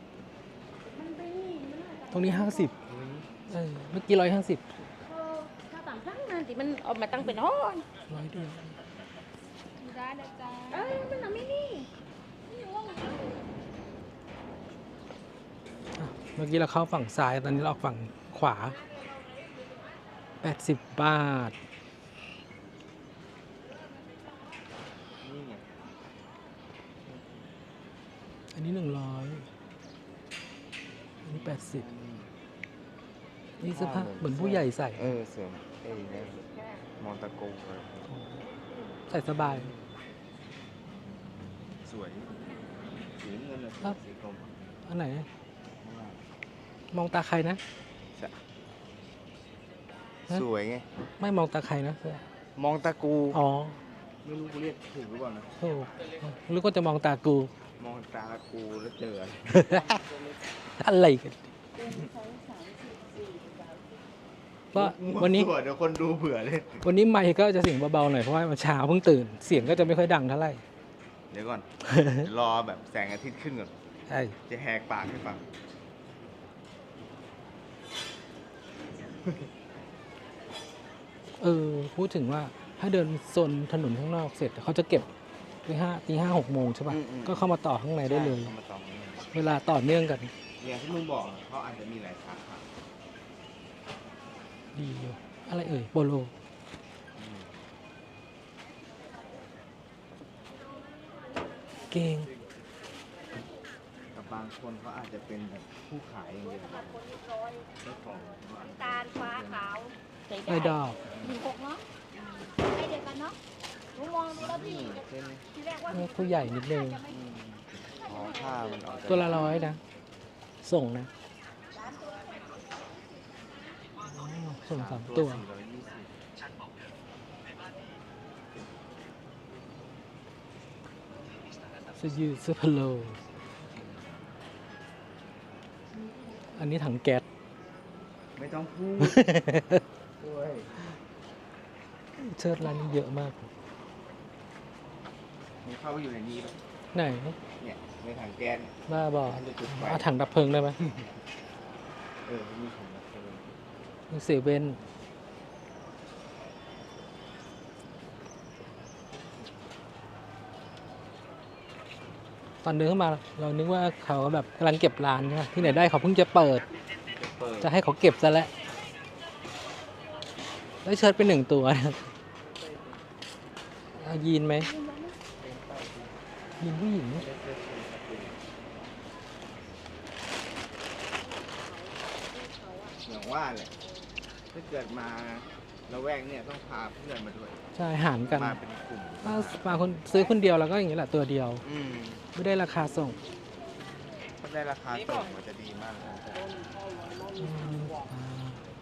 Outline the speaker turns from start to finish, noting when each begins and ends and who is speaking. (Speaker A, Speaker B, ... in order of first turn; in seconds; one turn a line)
Speaker A: 0.9-2.7
Speaker B: 2.1-2.7
Speaker C: 2.9-3.3
Speaker B: 3.5-4.7
Speaker A: 5.5-7.9
Speaker B: 8.1-8.8
Speaker A: 9.8-11.9
Speaker A: 12.5-13.4
Speaker B: 16.0-18.8
Speaker B: 20.4-21.6
Speaker C: 25.2-25.7
Speaker C: 27.1-27.4
Speaker B: 28.5-29.5
Speaker B: 31.2-31.9
Speaker C: 31.3-32.3
Speaker B: 33.6-35.0
Speaker C: 33.6-36.4
Speaker C: 37.0-38.2
Speaker B: 38.1-38.4
Speaker B: 39.1-39.7
Speaker C: 39.3-39.9
Speaker C: 41.8-42.4
Speaker C: 43.2-44.5
Speaker B: 44.9-45.3
Speaker C: 45.8-46.3
Speaker B: 46.9-47.6
Speaker C: 50.3-50.9
Speaker B: 51.2-52.2
Speaker C: 52.6-53.4
Speaker B: 53.3-53.8
Speaker C: 54.2-55.6
Speaker B: 55.6-57.5
Speaker C: 57.8-59.8
Speaker B: 59.5-60.0
Speaker B: 60.8-61.5
Speaker B: 64.7-65.5
Speaker C: 64.7-66.9
Speaker B: 66.8-70.6
Speaker C: 69.5-69.8
Speaker C: 71.3-73.7
Speaker B: 71.9-72.3
Speaker B: 74.1-74.4
Speaker C: 74.5-75.5
Speaker B: 81.4-85.1
Speaker B: 85.7-88.5
Speaker C: 86.9-87.5
Speaker C: 88.0-89.3
Speaker B: 89.3-90.3
Speaker C: 90.6-92.7
Speaker B: 94.8-96.3
Speaker C: 97.2-97.7
Speaker B: 101.9-102.3
Speaker C: 104.1-107.0
Speaker C: 107.8-109.8
Speaker A: 109.1-109.5
Speaker A: 110.3-111.8
Speaker B: 110.5-111.0
Speaker C: 111.1-111.4
Speaker A: 112.7-113.4
Speaker A: 114.0-114.7
Speaker C: 114.3-115.5
Speaker B: 115.9-117.0
Speaker C: 117.0-119.7
Speaker B: 119.1-119.8
Speaker B: 120.6-121.1
Speaker B: 124.0-125.4
Speaker C: 124.7-126.2
Speaker B: 132.0-133.2
Speaker C: 133.4-134.2
Speaker B: 136.6-137.2
Speaker C: 138.4-139.3
Speaker B: 139.0-139.8
Speaker C: 140.2-140.9
Speaker B: 142.2-143.5
Speaker C: 145.6-146.6
Speaker B: 146.9-147.4
Speaker C: 147.6-150.2
Speaker B: 148.9-150.8
Speaker C: 150.8-151.2
Speaker C: 152.2-153.7
Speaker B: 154.1-154.8
Speaker B: 162.6-166.7
Speaker C: 167.2-167.7
Speaker B: 167.6-168.5
Speaker B: 170.8-172.0
Speaker B: 174.0-174.7
Speaker A: 174.7-175.0
Speaker C: 175.4-176.2
Speaker B: 176.6-177.2
Speaker C: 177.1-178.4
Speaker A: 181.6-182.9
Speaker C: 183.0-183.7
Speaker C: 184.5-187.6
Speaker B: 187.8-188.6
Speaker C: 188.2-189.8
Speaker B: 189.2-191.6
Speaker C: 191.6-192.2
Speaker B: 192.3-193.2
Speaker C: 194.4-196.6
Speaker B: 197.4-198.6